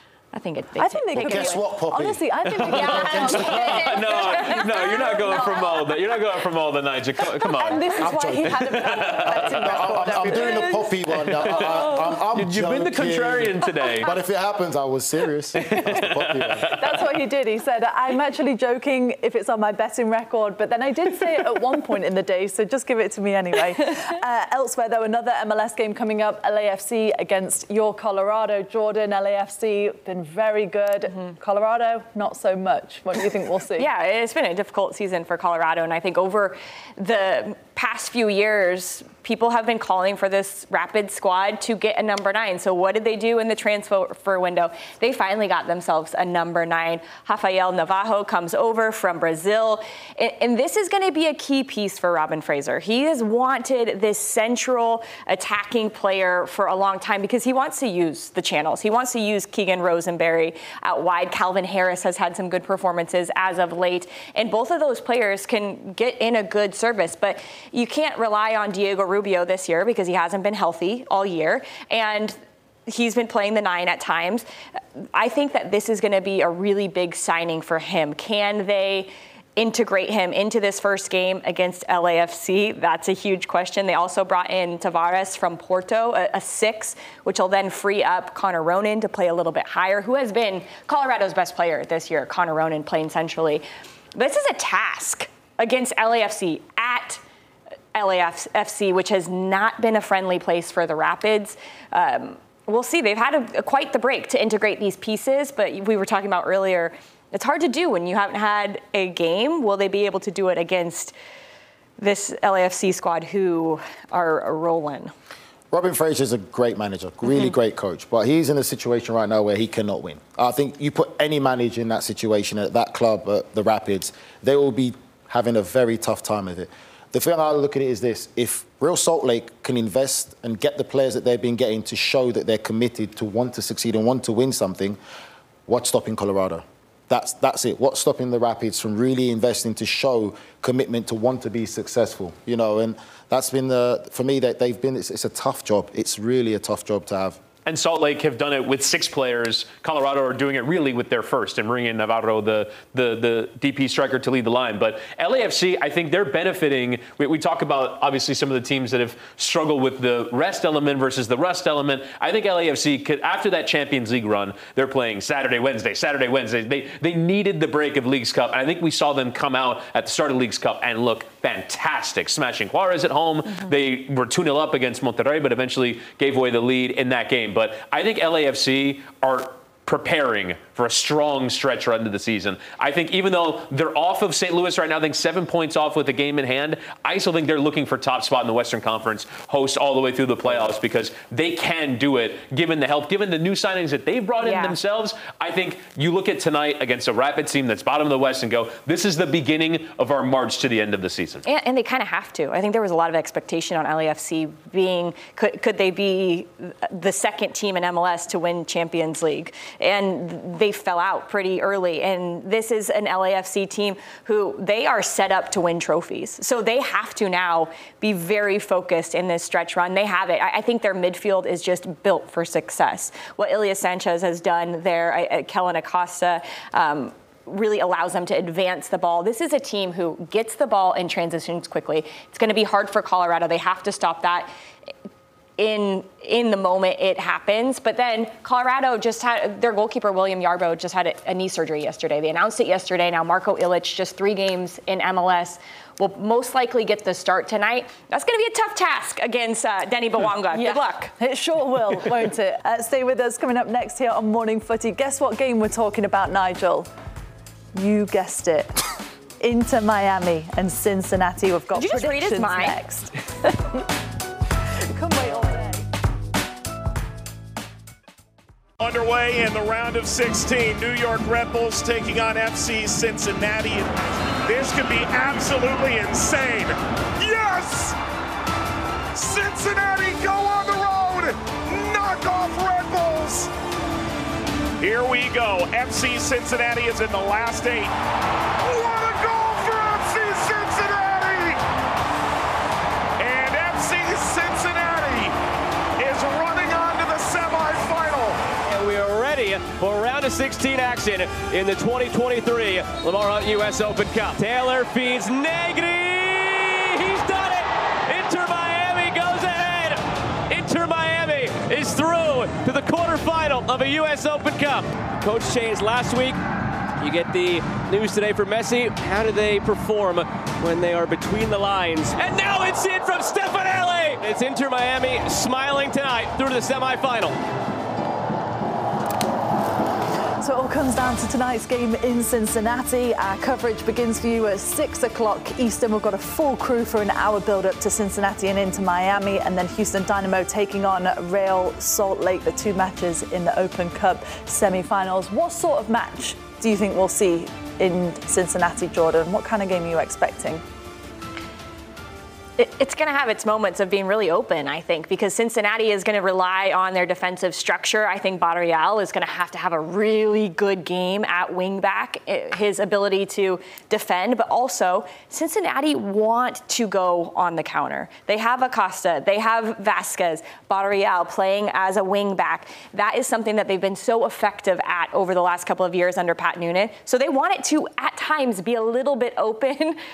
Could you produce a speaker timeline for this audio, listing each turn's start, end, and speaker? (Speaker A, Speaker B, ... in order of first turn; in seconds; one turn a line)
Speaker A: 0.3-1.6
Speaker B: 0.8-5.9
Speaker C: 1.1-3.8
Speaker D: 2.5-7.9
Speaker A: 2.7-5.7
Speaker B: 7.5-12.0
Speaker C: 8.0-16.8
Speaker D: 8.4-10.5
Speaker D: 11.4-14.1
Speaker D: 15.6-17.0
Speaker B: 16.7-33.9
Speaker A: 33.8-74.4
Speaker A: 75.1-97.2
Speaker A: 97.9-111.1
Speaker A: 112.0-115.1
Speaker C: 115.7-135.0
Speaker C: 135.7-147.4
Speaker D: 147.7-201.4
Speaker A: 194.4-194.8
Speaker A: 201.4-234.5
Speaker A: 235.6-251.1
Speaker B: 250.5-256.9
Speaker B: 257.7-258.8
Speaker B: 259.4-263.1
Speaker A: 261.7-262.8
Speaker B: 264.9-265.8
Speaker E: 268.8-273.9
Speaker E: 274.4-277.9
Speaker E: 279.1-283.5
Speaker E: 284.8-287.9
Speaker E: 288.6-291.6
Speaker E: 293.2-295.3
Speaker E: 296.0-298.4
Speaker F: 298.7-316.4
Speaker F: 317.0-327.4
Speaker B: 330.4-350.6
Speaker A: 352.6-380.0